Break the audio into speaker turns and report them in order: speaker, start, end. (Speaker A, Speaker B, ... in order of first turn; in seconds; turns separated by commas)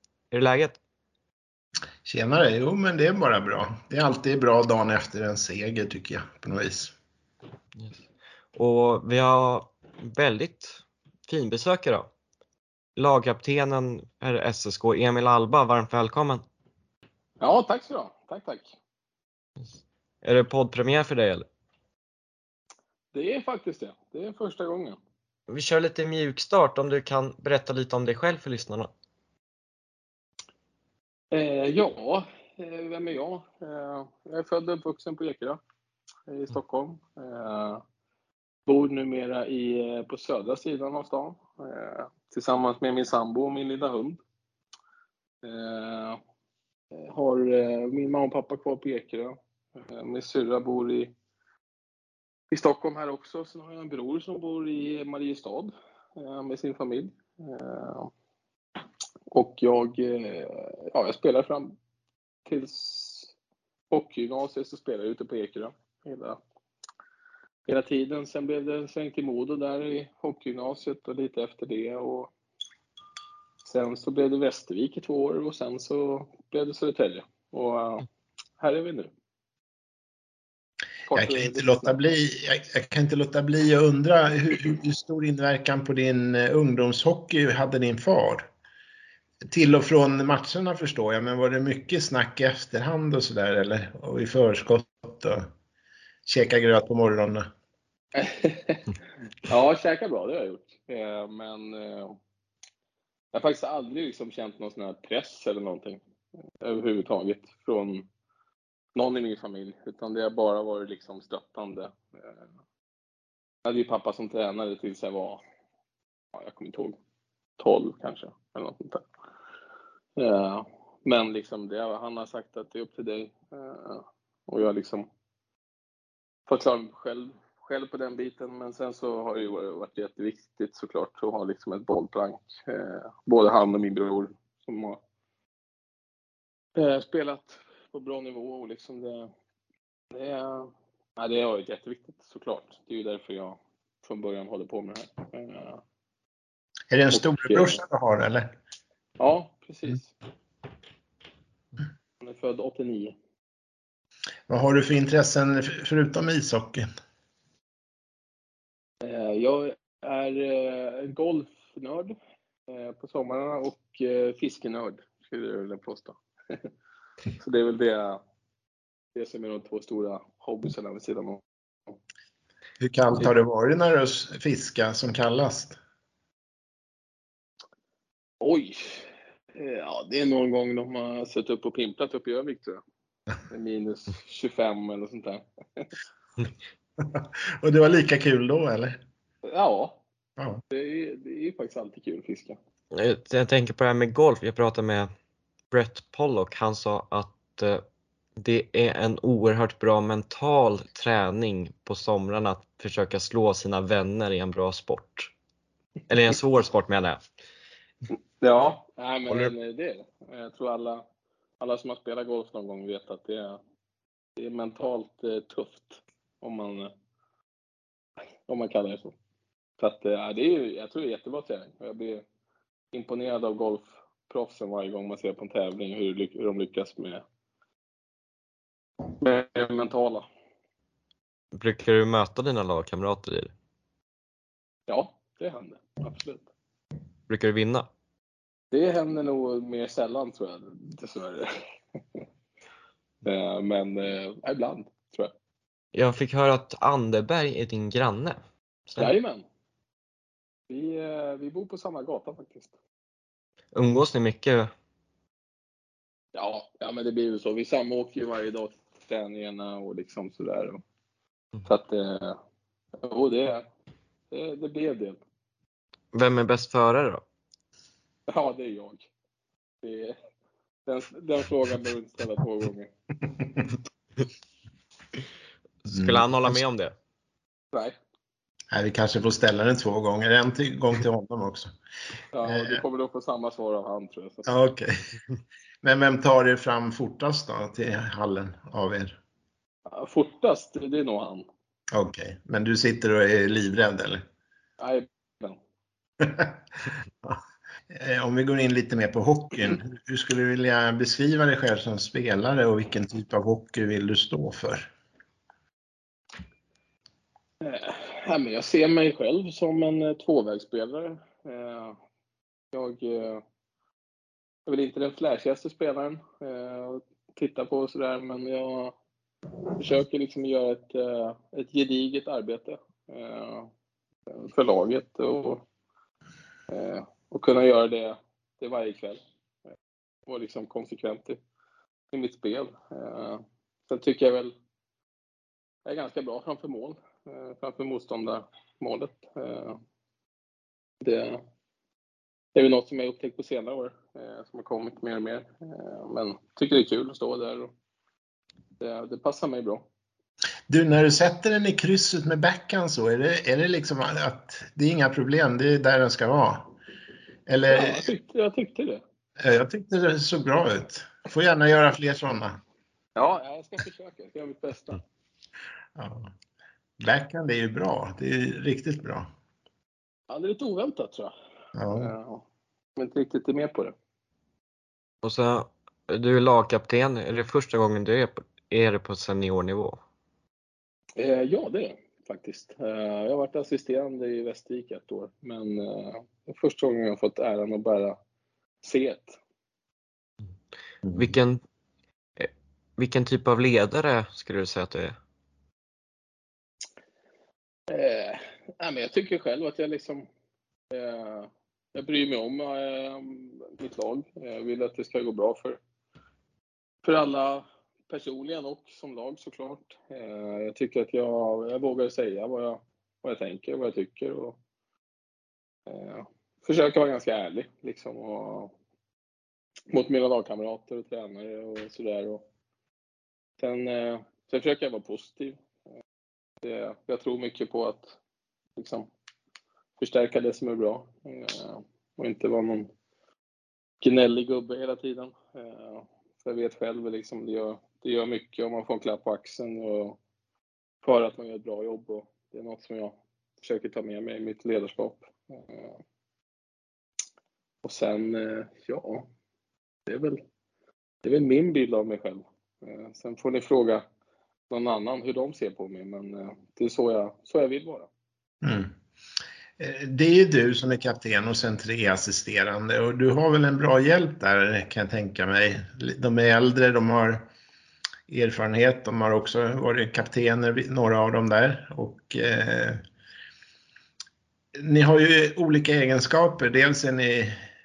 Speaker A: 0.3-0.8, Speaker B: 2.0-6.9, Speaker A: 8.6-12.1, Speaker A: 13.0-16.4, Speaker C: 17.4-18.8, Speaker A: 19.6-21.5, Speaker C: 23.1-25.0, Speaker A: 25.5-28.9, Speaker C: 31.3-35.6, Speaker C: 36.3-37.8, Speaker C: 38.7-44.2, Speaker C: 45.4-46.2, Speaker C: 46.9-49.4, Speaker C: 49.9-51.1, Speaker C: 52.5-58.1, Speaker C: 59.3-61.8, Speaker C: 62.5-63.3, Speaker C: 63.9-66.4, Speaker C: 67.7-72.3, Speaker C: 73.6-78.1, Speaker C: 78.6-79.1, Speaker C: 81.1-82.0, Speaker B: 81.1-88.5, Speaker B: 89.5-95.5, Speaker B: 96.3-97.5, Speaker C: 98.2-98.9, Speaker C: 99.4-102.2, Speaker C: 103.3-106.0, Speaker C: 106.6-108.1, Speaker C: 109.0-112.2, Speaker C: 113.7-115.4, Speaker C: 116.3-117.0, Speaker C: 117.6-119.1, Speaker C: 120.2-125.1, Speaker C: 126.5-135.0, Speaker C: 136.8-139.3, Speaker C: 140.1-145.8, Speaker B: 146.9-148.5, Speaker C: 147.1-147.8, Speaker C: 149.2-150.1, Speaker C: 152.2-153.2, Speaker B: 154.5-156.8, Speaker C: 159.0-162.2, Speaker C: 162.7-166.7, Speaker C: 167.4-168.2, Speaker C: 169.2-171.4, Speaker B: 172.8-175.8, Speaker C: 178.4-182.8, Speaker C: 183.5-185.9, Speaker B: 187.0-189.0, Speaker C: 189.4-190.0, Speaker C: 190.7-192.6, Speaker A: 192.9-195.1, Speaker A: 195.7-197.8, Speaker A: 198.4-205.3, Speaker A: 206.1-207.2, Speaker C: 208.4-211.0, Speaker C: 211.6-213.6, Speaker C: 214.4-216.9, Speaker C: 218.5-219.2, Speaker C: 219.8-222.2, Speaker C: 222.9-227.2, Speaker C: 229.1-230.3, Speaker A: 231.5-233.5, Speaker C: 234.9-236.5, Speaker A: 237.3-237.9, Speaker C: 238.7-241.6, Speaker C: 243.2-245.3, Speaker A: 245.9-249.1, Speaker C: 249.0-249.4, Speaker C: 250.7-252.7, Speaker A: 253.7-254.7, Speaker C: 256.4-260.8, Speaker C: 261.6-262.4, Speaker C: 263.0-263.7, Speaker C: 264.3-265.2, Speaker A: 266.1-267.2, Speaker C: 268.3-269.1, Speaker C: 269.8-270.2, Speaker C: 270.9-272.9, Speaker A: 275.8-276.9, Speaker B: 275.9-276.6, Speaker B: 278.7-281.7, Speaker C: 282.3-284.5, Speaker B: 282.4-282.8, Speaker B: 284.5-284.9, Speaker B: 285.8-289.2, Speaker C: 289.9-291.5, Speaker B: 291.9-294.2, Speaker C: 294.8-295.6, Speaker B: 296.2-296.6, Speaker B: 297.9-304.9, Speaker C: 307.6-312.0, Speaker C: 312.7-313.4, Speaker C: 314.7-319.0, Speaker C: 319.8-323.7, Speaker C: 324.3-325.6, Speaker C: 326.7-329.2, Speaker C: 330.3-331.4, Speaker C: 332.1-334.5, Speaker C: 335.9-339.8, Speaker C: 341.0-341.4, Speaker C: 342.6-347.7, Speaker C: 348.8-349.9, Speaker B: 350.7-356.7, Speaker B: 357.5-358.1, Speaker C: 357.7-359.0, Speaker B: 359.4-362.6, Speaker C: 363.2-365.0, Speaker B: 366.0-366.3, Speaker B: 367.0-369.3, Speaker C: 370.3-371.3, Speaker B: 371.8-372.1, Speaker C: 371.9-372.4, Speaker C: 373.0-373.9, Speaker A: 375.2-380.0, Speaker C: 381.2-388.2, Speaker C: 388.8-389.4, Speaker A: 391.1-391.6, Speaker A: 392.4-395.2, Speaker C: 397.9-400.3, Speaker C: 400.9-405.8, Speaker C: 407.1-414.6, Speaker C: 415.9-418.7, Speaker C: 419.9-422.4, Speaker C: 423.6-425.6, Speaker C: 426.6-428.2, Speaker C: 428.8-429.1, Speaker C: 430.0-432.9, Speaker C: 434.0-440.2, Speaker C: 441.0-446.0, Speaker C: 447.8-449.3, Speaker C: 450.1-450.4, Speaker C: 451.2-454.1, Speaker C: 454.7-458.1, Speaker B: 458.6-458.9, Speaker B: 459.8-467.5, Speaker B: 468.3-473.0, Speaker B: 474.8-477.6